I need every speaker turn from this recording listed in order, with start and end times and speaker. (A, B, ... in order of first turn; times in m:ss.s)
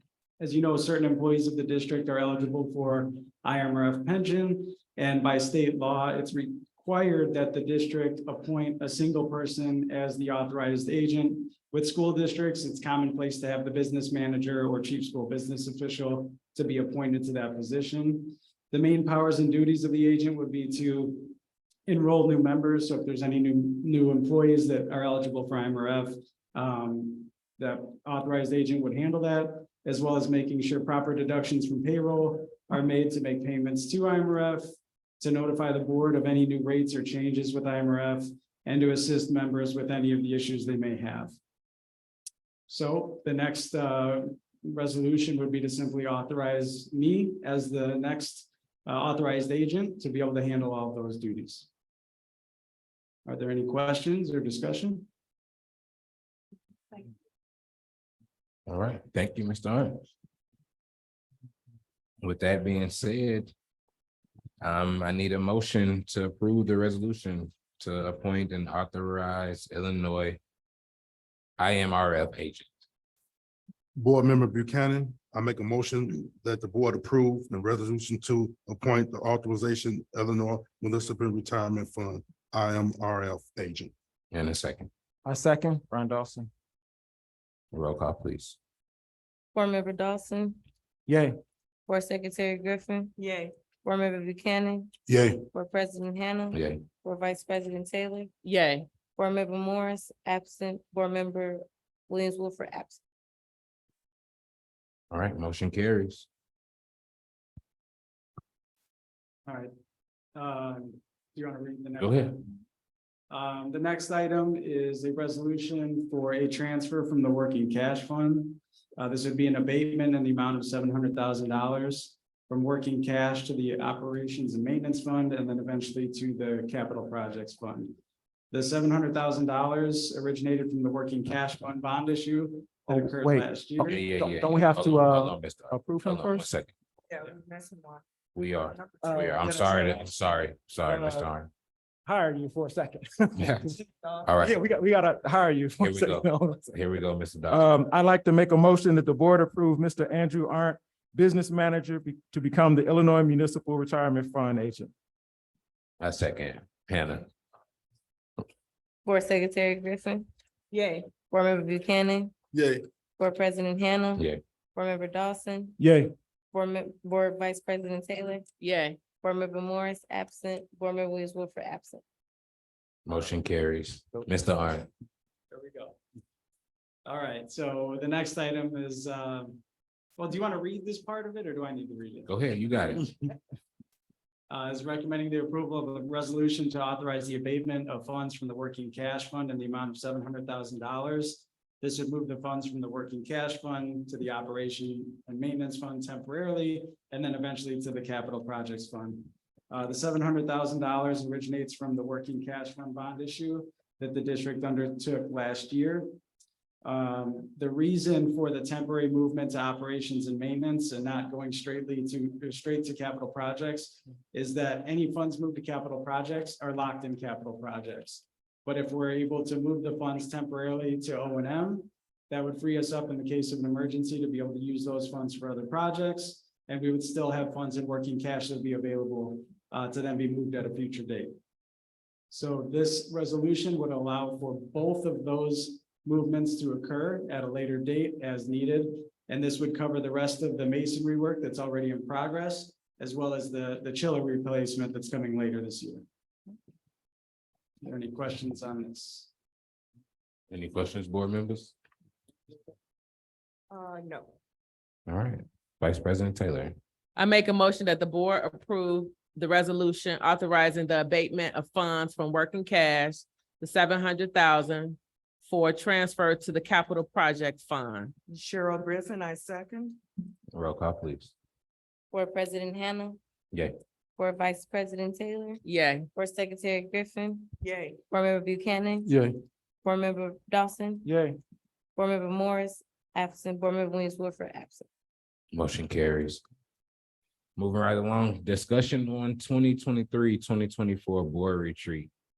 0:00.4-0:34.7 A
0:35.2-0:41.4 A
0:42.7-0:51.7 A
0:53.3-0:55.1 A
0:58.7-1:00.1 B
1:02.2-1:03.5 B
1:04.6-1:10.4 B
1:11.6-1:12.7 B
1:14.0-1:23.9 C
1:24.3-1:24.9 B
1:25.2-1:26.5 D
1:27.7-1:28.6 B
1:29.5-1:30.6 E
1:31.1-1:31.4 D
1:31.9-1:33.1 E
1:33.2-1:33.5 F
1:33.8-1:34.9 E
1:35.1-1:35.4 C
1:35.5-1:38.3 E
1:36.5-1:36.8 B
1:38.4-1:38.8 G
1:39.2-1:43.0 E
1:45.1-1:46.3 B
1:49.5-1:49.7 A
1:50.4-1:52.4 A
1:52.0-1:52.4 B
1:53.3-2:08.0 A
2:08.5-2:14.0 A
2:12.9-2:16.5 D
2:13.8-2:16.7 B
2:17.1-2:18.0 F
2:18.4-2:21.5 B
2:18.9-2:19.4 F
2:19.0-2:19.7 D
2:20.9-2:21.3 D
2:22.1-2:23.8 D
2:23.4-2:24.6 B
2:24.4-2:26.8 D
2:25.8-2:27.7 B
2:27.5-2:34.9 D
2:36.0-2:37.3 B
2:39.0-2:40.3 E
2:40.8-2:41.0 F
2:41.3-2:42.3 E
2:42.5-2:42.8 C
2:43.2-2:45.8 E
2:45.8-2:46.1 D
2:46.5-2:48.5 E
2:48.6-2:49.0 G
2:49.2-2:52.0 E
2:53.1-2:54.9 B
2:55.5-2:56.0 A
2:57.0-2:59.6 A
3:00.2-3:02.3 A
3:02.3-3:03.1 B
3:04.5-3:26.2 A
3:26.8-3:51.3 A
3:52.3-4:06.0 A
4:07.8-4:09.3 A
4:10.5-4:11.8 B
4:13.7-4:14.3 F
4:15.1-4:16.8 B
4:17.2-4:28.1 G
4:28.3-4:30.0 F
4:30.5-4:31.3 B
4:32.1-4:33.2 E
4:34.2-4:35.6 E
4:35.6-4:36.1 G
4:36.2-4:37.5 E
4:37.7-4:37.9 F
4:38.1-4:39.3 E
4:39.1-4:39.3 D
4:39.8-4:41.1 E
4:41.0-4:41.4 D
4:42.0-4:44.9 E
4:45.5-4:46.4 B
4:47.6-4:52.1 B